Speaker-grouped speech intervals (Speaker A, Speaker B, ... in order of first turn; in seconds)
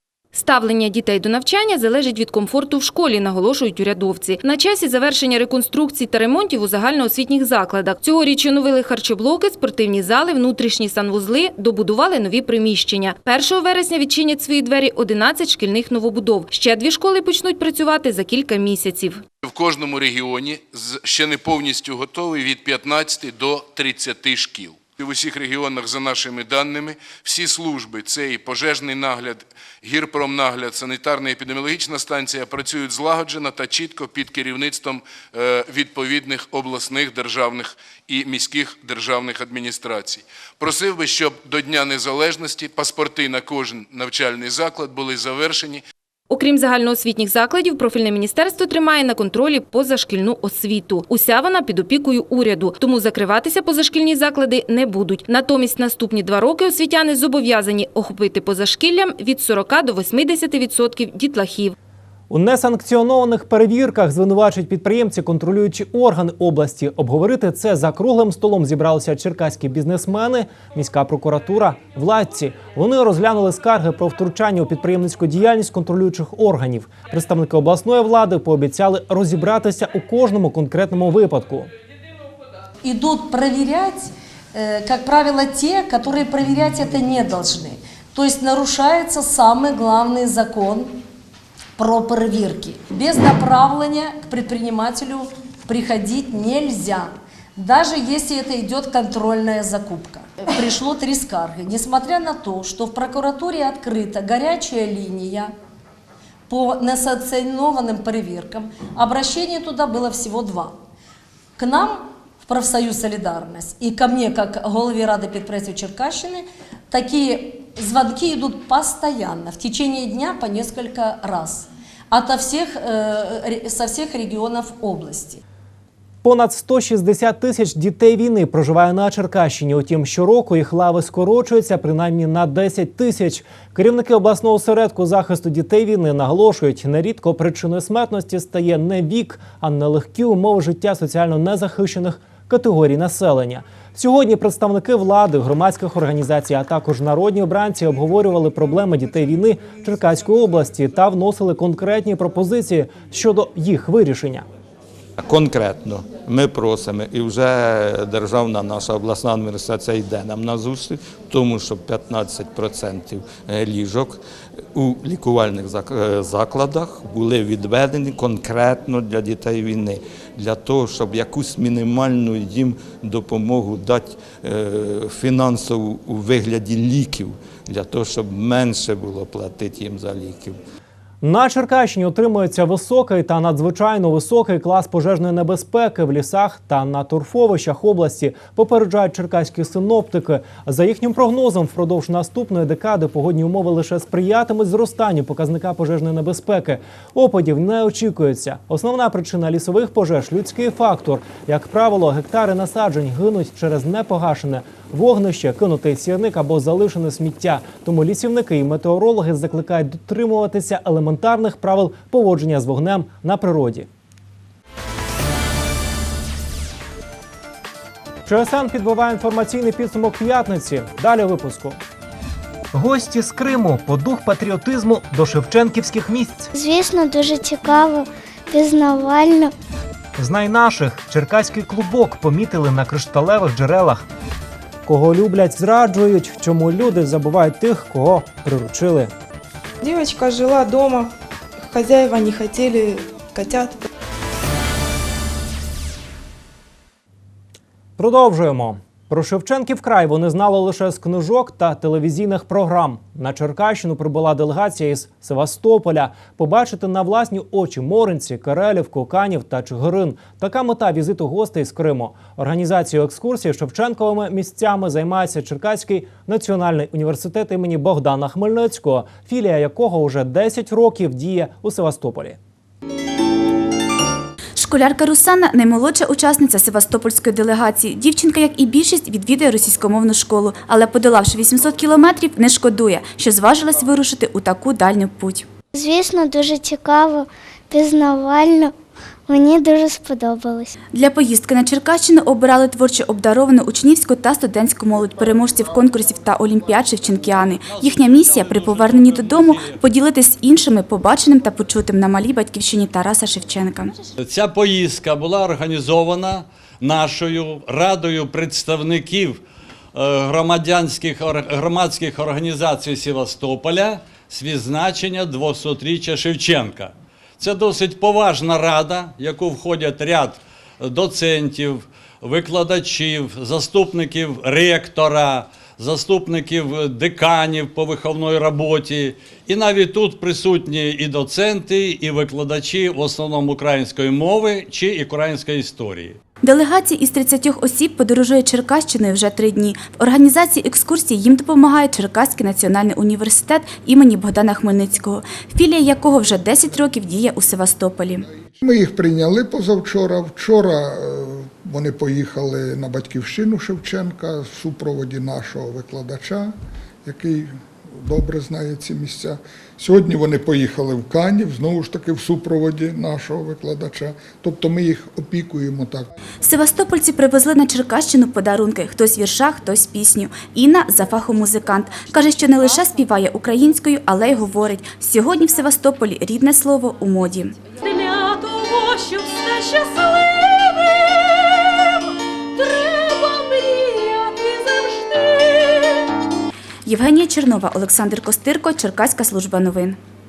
Speaker A: 0.3-19.2, 46.3-61.8
Speaker B: 19.4-45.8
Speaker C: 62.3-81.7, 126.2-154.5, 181.2-213.9, 218.3-221.8, 222.7-226.5, 230.2-234.1, 234.9-239.1, 248.0-272.4
Speaker D: 82.8-91.0, 91.8-105.5, 106.5-110.8, 111.6-125.4
Speaker E: 155.2-164.2, 164.7-180.6
Speaker F: 226.5-229.5, 285.7-288.7, 289.3-290.8
Speaker G: 239.8-243.9
Speaker H: 274.6-285.5, 290.9-303.9, 336.4-348.2, 366.4-377.6, 386.9-390.0
Speaker I: 297.6-299.8, 304.2-309.4, 309.9-336.2
Speaker J: 348.6-366.1
Speaker K: 377.8-380.0, 384.3-385.3